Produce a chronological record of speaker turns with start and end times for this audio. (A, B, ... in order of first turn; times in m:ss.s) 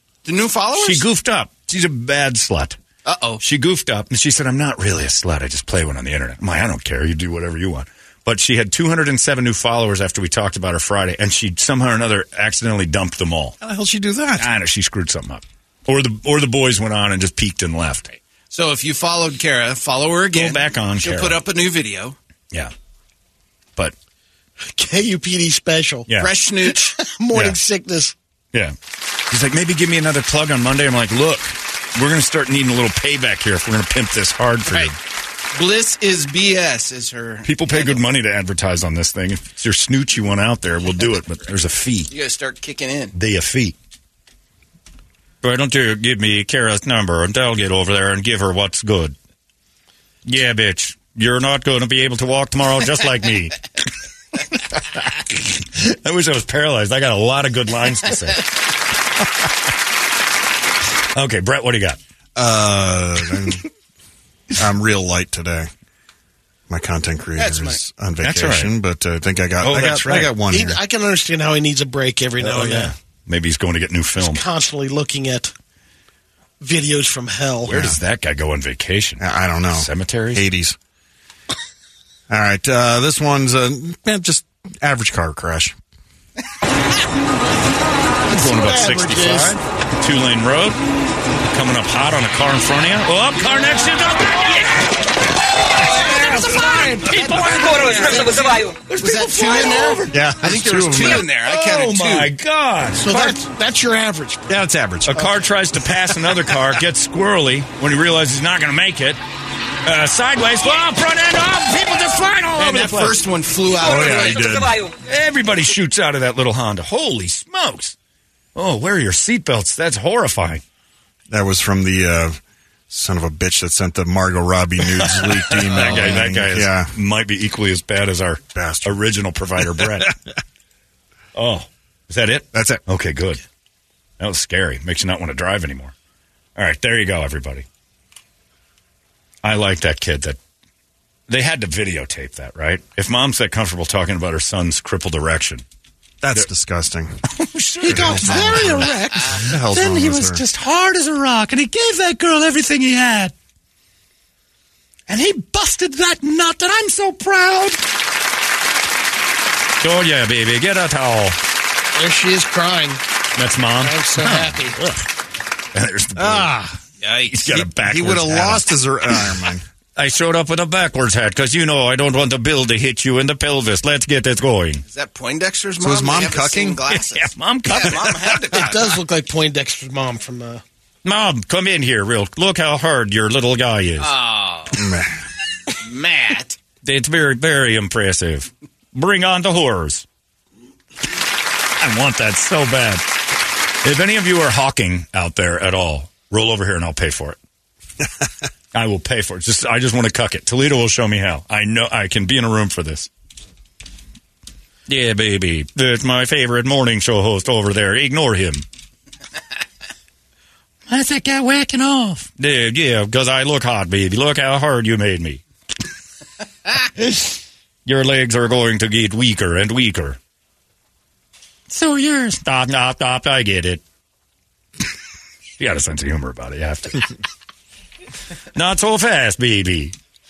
0:00.2-0:01.0 A
0:00.8-0:02.8 B
0:03.0-0:03.4 A
0:03.4-0:13.5 B
0:13.6-0:14.5 C
0:14.4-0:18.1 B
0:18.1-0:22.2 A
0:20.3-0:21.4 B
0:24.6-0:26.1 D
0:26.1-0:26.9 A
0:26.7-0:28.1 D
0:29.3-0:34.9 B
0:35.5-0:38.0 A
0:37.4-0:42.1 B
0:42.1-0:43.1 A
0:43.1-0:43.7 B
0:45.4-0:49.2 B
0:50.2-0:53.6 B
0:55.0-0:58.5 B
1:01.1-1:02.0 B
1:02.4-1:03.6 C
1:04.6-1:05.7 C
1:06.7-1:10.8 C
1:07.3-1:07.8 A
1:08.2-1:08.7 B
1:09.6-1:10.3 B
1:10.5-1:12.9 D
1:12.4-1:14.4 B
1:14.2-1:15.5 D
1:16.6-1:17.8 D
1:17.7-1:20.4 B
1:19.2-1:20.8 C
1:22.3-1:25.7 C
1:28.3-1:29.6 D
1:28.3-1:30.8 B
1:31.5-1:35.0 B
1:35.7-1:40.3 B
1:35.9-1:38.0 E
1:37.1-1:42.3 A
1:40.1-1:41.3 C
1:41.0-1:43.4 B
1:43.0-1:44.5 D
1:44.5-1:45.2 C
1:45.1-1:49.2 B
1:49.8-1:53.2 B
1:52.6-1:54.8 A
1:53.8-1:54.8 C
1:54.8-1:57.9 B
1:58.5-2:00.6 B
2:01.3-2:02.4 C
2:02.9-2:06.9 C
2:05.1-2:10.1 B
2:08.5-2:09.0 C
2:11.3-2:13.4 B
2:12.5-2:12.8 C
2:14.2-2:15.9 B
2:16.6-2:17.6 B
2:19.4-2:20.4 B
2:21.3-2:25.6 B
2:26.2-2:27.2 C
2:27.3-2:28.9 B
2:27.8-2:30.4 C
2:27.8-2:33.3 E
2:35.1-2:37.8 E
2:39.8-2:41.4 B
2:41.9-2:43.0 D
2:43.4-2:45.1 B
2:43.8-2:44.8 D
2:45.7-2:46.7 B
2:46.2-2:46.6 C
2:47.0-2:47.4 A
2:47.3-2:48.7 B
2:47.5-2:49.6 C
2:50.0-2:54.8 B
2:54.8-2:58.9 A
2:55.8-2:56.8 C
2:56.9-2:58.3 B
2:58.5-3:00.6 D
3:01.0-3:04.1 B
3:04.0-3:04.8 A
3:04.7-3:05.2 C
3:05.8-3:06.6 A
3:06.8-3:10.0 B
3:11.8-3:13.0 B
3:13.8-3:17.4 B
3:18.7-3:23.1 B
3:24.9-3:28.6 B
3:30.9-3:32.1 E
3:32.1-3:35.4 B
3:36.9-3:40.2 B
3:41.7-3:43.8 B
3:45.6-3:47.1 B
3:48.5-3:49.9 B